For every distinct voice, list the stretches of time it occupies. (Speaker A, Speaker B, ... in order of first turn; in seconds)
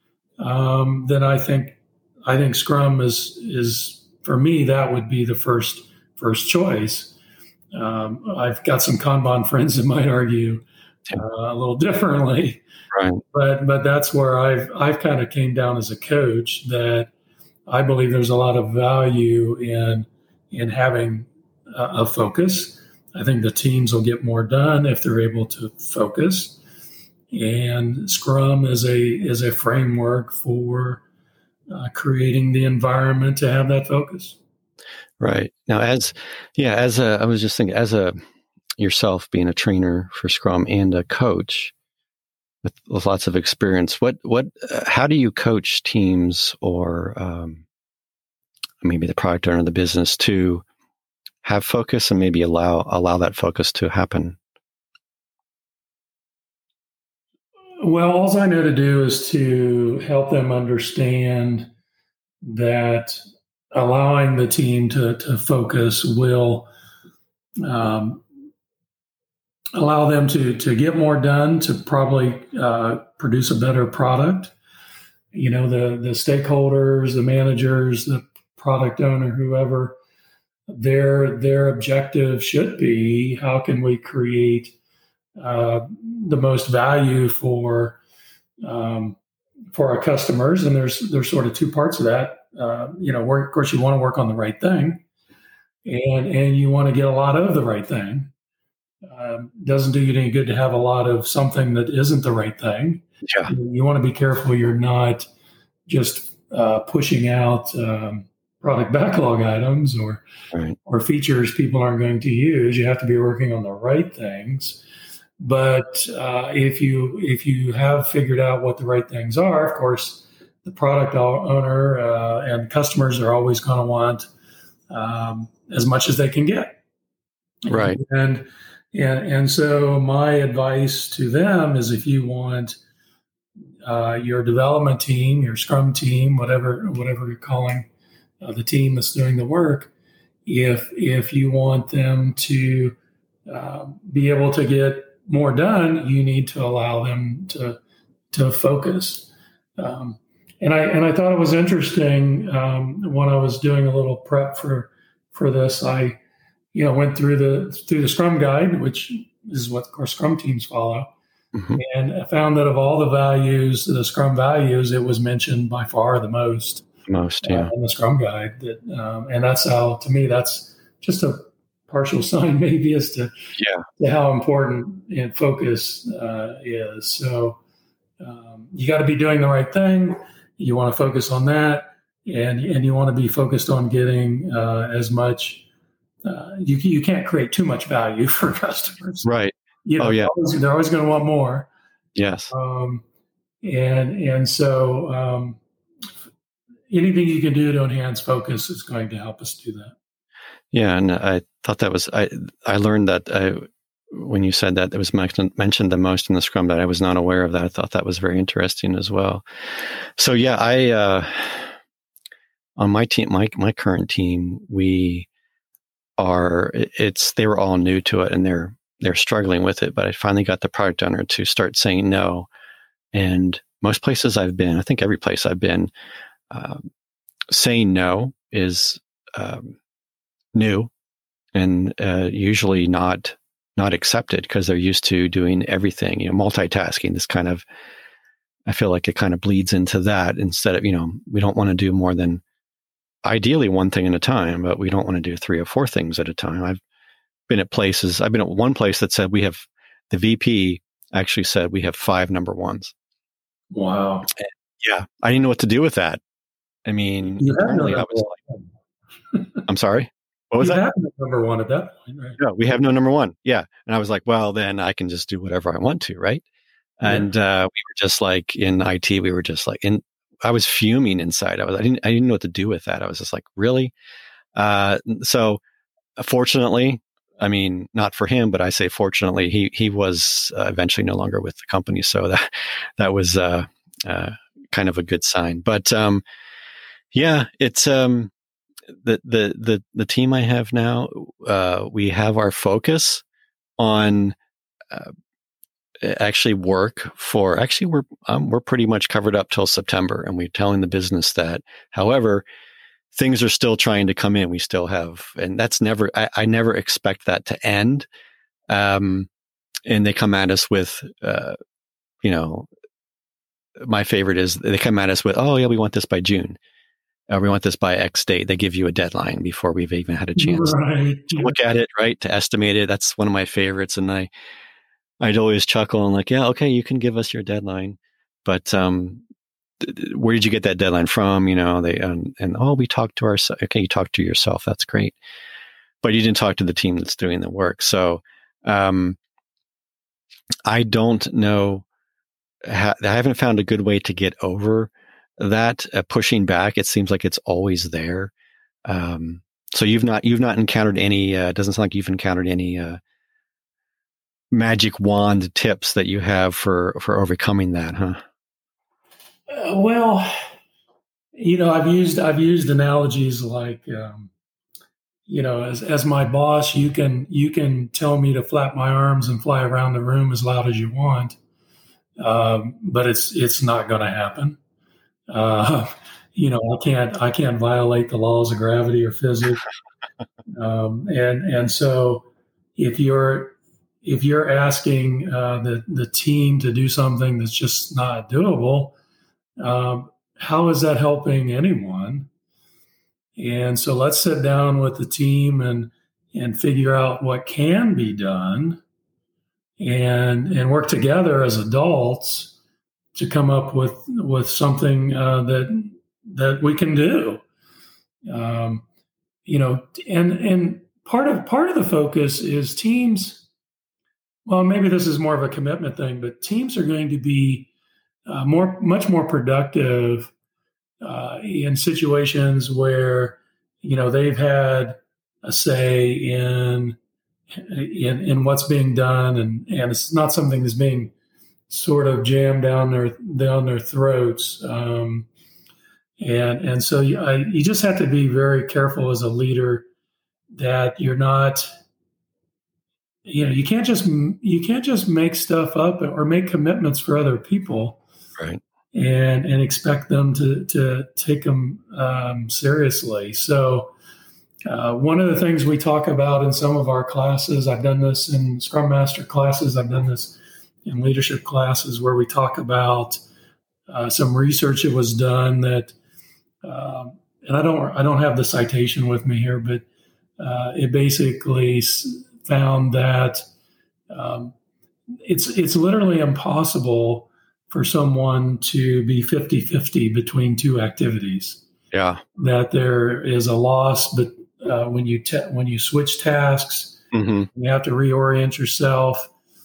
Speaker A: 0.4-7.1, 7.7-12.6, 13.3-17.1, 17.7-26.6, 27.3-31.0, 31.7-34.4, 57.8-61.7, 62.4-63.2, 63.7-66.7, 67.6-68.2, 69.8-74.5, 75.3-80.0, 80.7-84.7, 85.4-88.0, 88.6-89.2, 89.7-95.0, 95.8-98.3, 99.0-105.3, 105.9-110.2, 110.8-114.8, 115.4-124.3, 124.9-126.8, 127.7-132.8, 133.8-137.9, 138.4-139.9, 140.5-143.0, 143.5-147.8, 148.3-156.2, 156.7-161.1, 161.8-166.9, 167.4-173.3, 174.0-177.6, 178.2-185.7, 186.2-189.3, 189.8-191.7, 192.5-193.0, 193.6-195.6, 196.9-199.9, 253.7-254.3, 257.4-258.6, 260.6-262.4, 267.0-267.3, 320.4-321.6, 359.5-360.3, 361.4-364.3, 365.3-371.4, 372.2-374.6, 375.3-379.6, 380.5-388.9, 389.6-392.3, 393.4-398.8, 399.8-402.6, 403.1-407.4, 408.3-408.8, 409.5-413.4, 414.5-417.7, 418.3-420.3, 421.0-427.0, 427.5-431.1, 431.7-435.3, 436.2-439.9, 440.5-441.7, 443.2-448.0, 448.9-453.9, 454.7-463.2, 463.9-465.9, 466.6-469.9, 470.4-473.4, 474.1-474.5, 475.2-481.6, 482.4-487.0, 487.5-489.3
Speaker B: 12.9-13.2, 35.2-38.2, 38.8-41.7, 42.6-47.6, 48.8-50.6, 51.4-54.4, 127.7-128.0, 161.6-161.8, 167.1-167.7, 173.6-173.8, 189.2-190.3, 192.2-192.5, 200.7-211.7, 212.8-215.3, 216.2-222.5, 223.1-225.9, 226.5-226.9, 227.5-229.8, 230.6-230.9, 231.6-237.6, 238.7-242.4, 243.2-246.8, 247.5-252.9, 254.3-256.2, 256.9-258.4, 259.7-260.8, 262.4-266.4, 267.0-273.9, 274.6-275.6, 276.2-286.2, 287.1-288.3, 289.0-293.2, 293.8-294.4, 296.0-302.4, 303.1-308.1, 308.7-309.3, 309.9-311.6, 312.2-312.7, 313.8-316.6, 317.3-320.8, 321.4-324.3, 325.2-329.2, 329.8-335.2, 336.0-339.2, 340.7-341.9, 342.7-348.3, 348.9-353.0, 354.5-358.2, 481.9-482.2, 487.1-487.5